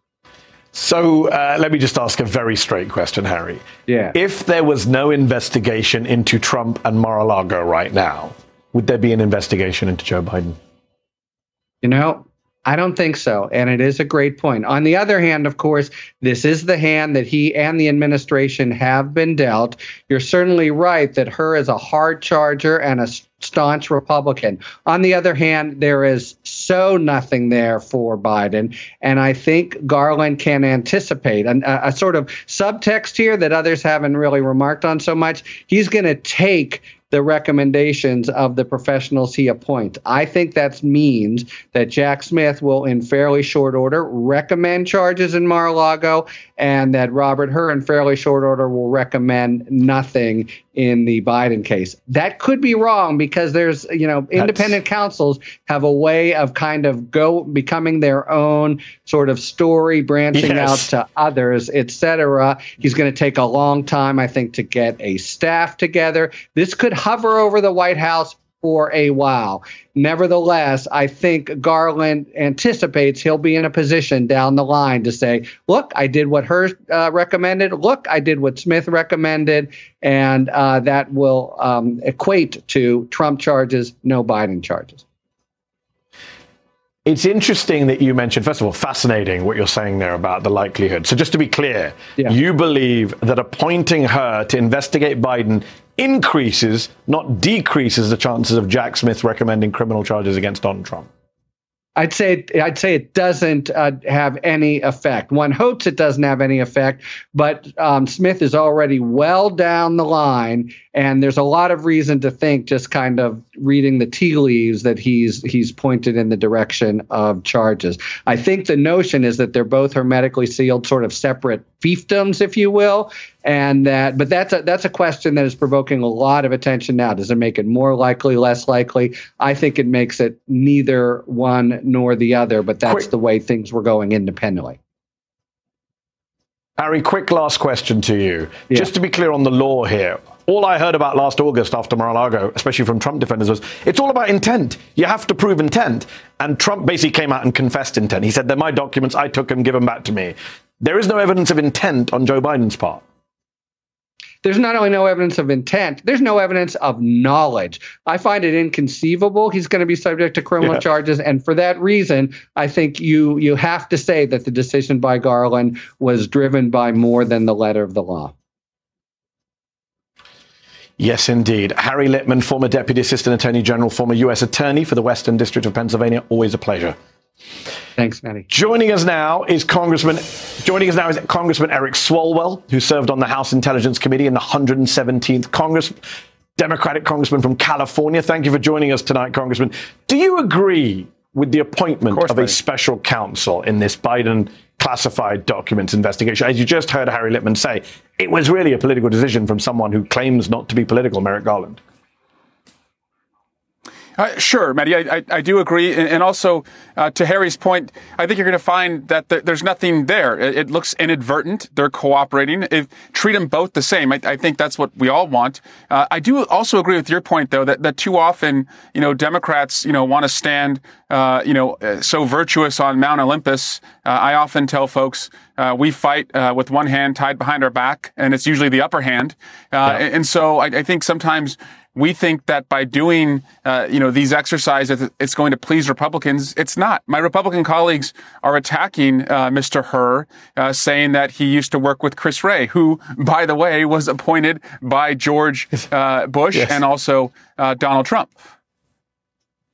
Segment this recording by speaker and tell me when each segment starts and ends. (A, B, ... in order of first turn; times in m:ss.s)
0:00.7-0:10.6 A
0:03.9-0:04.1 B
0:11.8-1:25.0 B
0:54.4-0:54.8 A
1:00.3-1:00.9 A
1:27.1-1:41.1 A
1:42.0-2:14.8 B
2:16.8-2:33.0 A
2:34.4-2:48.3 B
2:51.0-2:57.0 A
2:58.0-2:58.5 B
2:58.5-3:06.0 A
3:06.6-3:21.8 A
3:24.2-4:08.3 C
4:06.5-4:06.8 A